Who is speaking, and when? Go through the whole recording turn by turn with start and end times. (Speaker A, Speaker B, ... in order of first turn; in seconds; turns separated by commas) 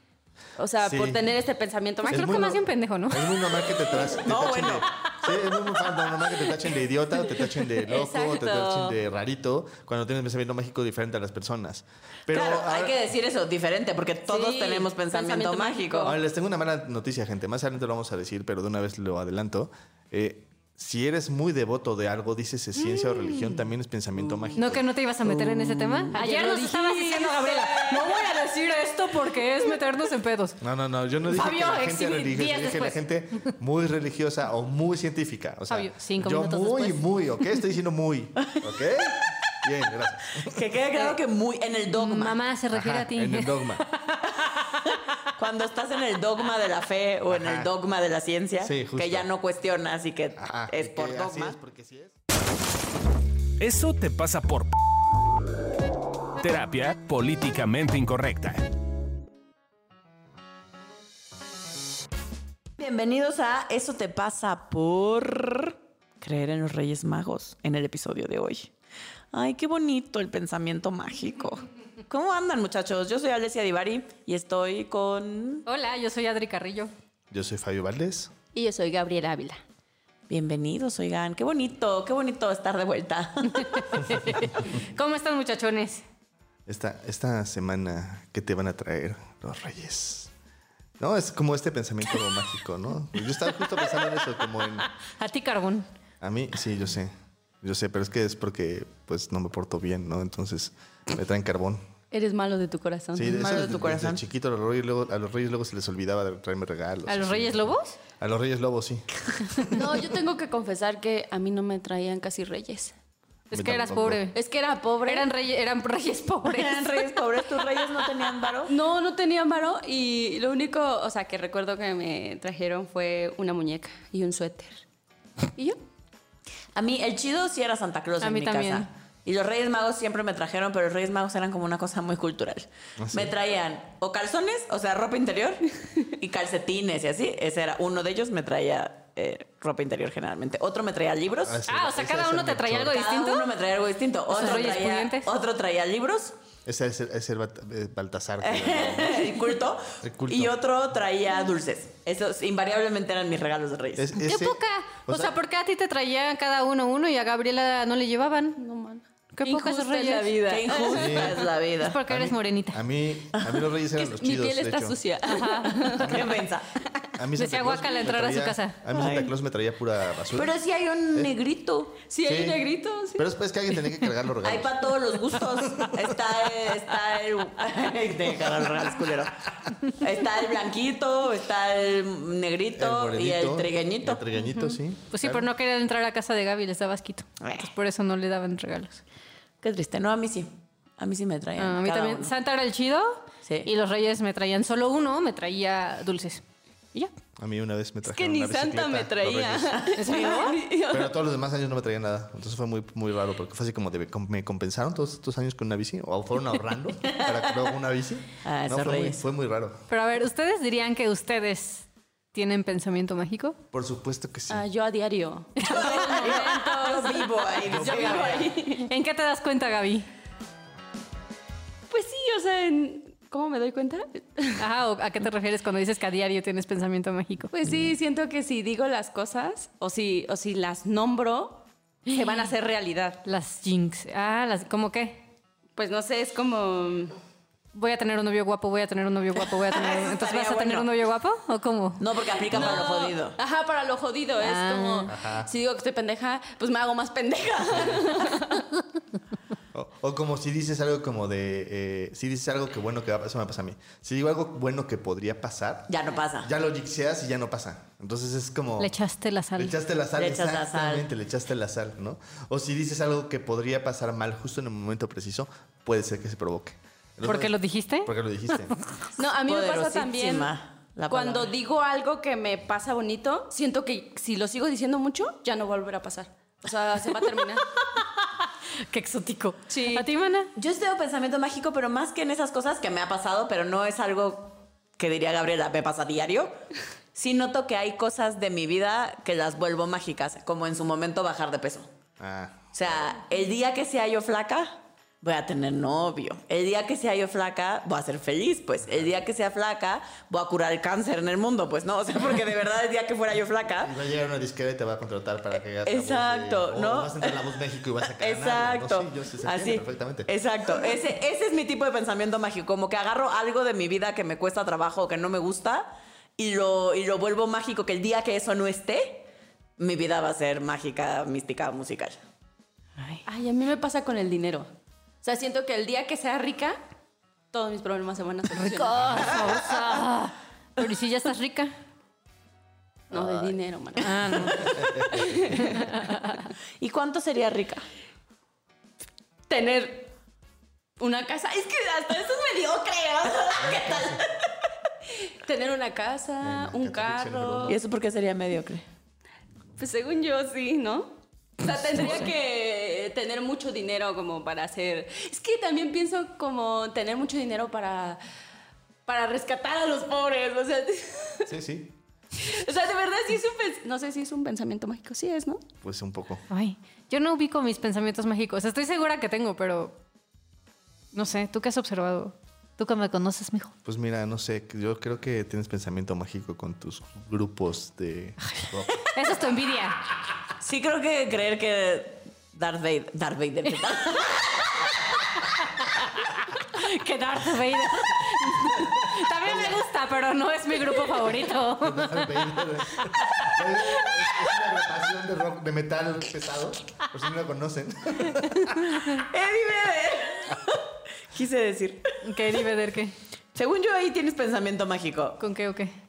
Speaker A: 0.6-2.5, Speaker B: 0.8-1.2, Speaker C: 2.0-3.7, Speaker B: 2.1-12.9, Speaker D: 4.2-4.9, Speaker A: 7.6-9.0, Speaker D: 12.3-16.1, Speaker A: 14.3-16.2, Speaker B: 16.1-24.9, Speaker C: 22.9-23.4, Speaker C: 24.6-30.6, Speaker D: 25.2-28.2, Speaker A: 26.1-28.1, Speaker B: 30.6-40.6, Speaker C: 31.3-33.0, Speaker C: 35.7-37.0, Speaker D: 40.4-42.4, Speaker C: 41.9-44.2, Speaker B: 42.7-43.8, Speaker D: 44.5-51.6, Speaker B: 47.3-47.7, Speaker B: 48.6-49.3, Speaker B: 50.4-52.2, Speaker E: 53.6-54.7, Speaker E: 56.4-58.7, Speaker D: 62.8-68.7, Speaker D: 69.3-75.7, Speaker C: 75.7-76.9, Speaker B: 77.3-78.3, Speaker A: 78.5-79.6, Speaker D: 80.3-84.1, Speaker C: 83.5-86.0, Speaker B: 86.7-90.3, Speaker B: 91.0-94.9, Speaker C: 93.6-94.0, Speaker C: 94.8-95.9, Speaker B: 96.2-101.8, Speaker A: 102.1-103.6, Speaker B: 103.1-107.6, Speaker D: 103.2-104.2, Speaker C: 107.1-108.0, Speaker B: 108.2-109.8, Speaker A: 109.7-112.9, Speaker C: 113.5-114.4, Speaker B: 113.5-114.2, Speaker A: 114.3-115.3, Speaker C: 115.0-117.2, Speaker D: 116.4-118.7, Speaker A: 118.7-124.8, Speaker D: 126.8-141.6, Speaker C: 128.2-128.9, Speaker B: 133.0-133.3, Speaker B: 141.4-143.0, Speaker C: 141.7-143.5, Speaker D: 142.9-146.3, Speaker C: 144.3-145.3, Speaker B: 146.7-149.3, Speaker D: 148.4-154.1, Speaker B: 150.0-150.6, Speaker B: 154.0-155.3, Speaker C: 154.2-158.6, Speaker A: 158.6-161.1, Speaker C: 159.3-161.2, Speaker D: 160.5-162.0, Speaker B: 160.9-161.4, Speaker C: 161.8-162.8, Speaker B: 162.1-165.0, Speaker D: 163.3-163.7, Speaker A: 164.0-166.2, Speaker C: 165.2-166.1, Speaker D: 166.0-166.7, Speaker B: 166.1-166.4, Speaker A: 166.8-167.1, Speaker B: 167.2-170.5, Speaker C: 167.4-169.1, Speaker D: 168.9-169.3, Speaker D: 170.3-172.0, Speaker A: 172.1-173.3, Speaker B: 172.2-172.6, Speaker B: 173.2-174.9, Speaker D: 174.4-184.2, Speaker B: 175.6-176.1, Speaker B: 182.8-185.5, Speaker A: 184.4-184.8, Speaker C: 185.1-189.0, Speaker D: 187.4-187.7, Speaker D: 189.6-192.3, Speaker C: 191.6-196.4, Speaker D: 193.4-193.7, Speaker B: 197.4-199.9, Speaker A: 198.0-201.1, Speaker C: 200.0-200.6, Speaker B: 200.9-209.8, Speaker D: 207.1-207.5, Speaker D: 208.4-209.3, Speaker C: 209.9-213.6, Speaker B: 213.7-214.6, Speaker A: 214.5-218.9, Speaker C: 215.6-217.1, Speaker D: 215.6-218.6, Speaker B: 217.7-218.2, Speaker C: 218.8-220.1, Speaker A: 221.9-224.6, Speaker C: 224.6-227.6, Speaker A: 227.6-233.2, Speaker C: 232.2-232.5, Speaker C: 233.2-235.2, Speaker A: 235.8-237.1, Speaker C: 237.7-242.0, Speaker D: 239.5-240.9, Speaker D: 242.0-243.4, Speaker A: 242.5-248.6, Speaker C: 244.4-245.1, Speaker B: 245.1-245.5, Speaker B: 247.7-248.1, Speaker B: 249.7-258.9, Speaker D: 255.9-256.5, Speaker C: 258.8-259.7, Speaker B: 259.6-268.8, Speaker D: 260.2-261.1, Speaker C: 267.2-268.8, Speaker A: 269.1-270.5, Speaker D: 269.4-271.5, Speaker A: 271.1-277.6, Speaker C: 277.9-278.2, Speaker C: 278.9-280.5, Speaker A: 279.7-280.1, Speaker D: 280.6-286.5, Speaker D: 287.1-291.9, Speaker B: 292.2-293.0, Speaker D: 292.7-303.9, Speaker B: 303.8-310.3, Speaker D: 305.8-307.5, Speaker D: 308.0-322.2, Speaker A: 323.2-324.7, Speaker A: 325.2-326.8, Speaker A: 327.5-329.3, Speaker C: 328.6-331.7, Speaker A: 333.1-335.8, Speaker B: 333.1-333.5, Speaker C: 334.0-336.5, Speaker B: 334.6-335.6, Speaker D: 336.8-337.8, Speaker A: 339.5-340.1, Speaker A: 341.0-343.6, Speaker D: 343.2-344.3, Speaker B: 343.6-344.2, Speaker A: 345.2-347.8, Speaker B: 346.4-347.8, Speaker D: 347.7-348.8, Speaker A: 349.8-358.2, Speaker A: 359.1-361.5, Speaker B: 361.5-362.0, Speaker A: 362.3-365.6, Speaker B: 365.8-366.4, Speaker C: 366.5-369.9, Speaker C: 371.1-373.7, Speaker B: 373.8-378.9, Speaker C: 378.5-380.0, Speaker D: 380.6-384.8, Speaker C: 385.4-394.2, Speaker B: 388.6-389.8, Speaker B: 391.8-398.9, Speaker D: 399.1-402.6, Speaker C: 402.2-403.1, Speaker D: 403.5-405.4, Speaker C: 405.4-405.9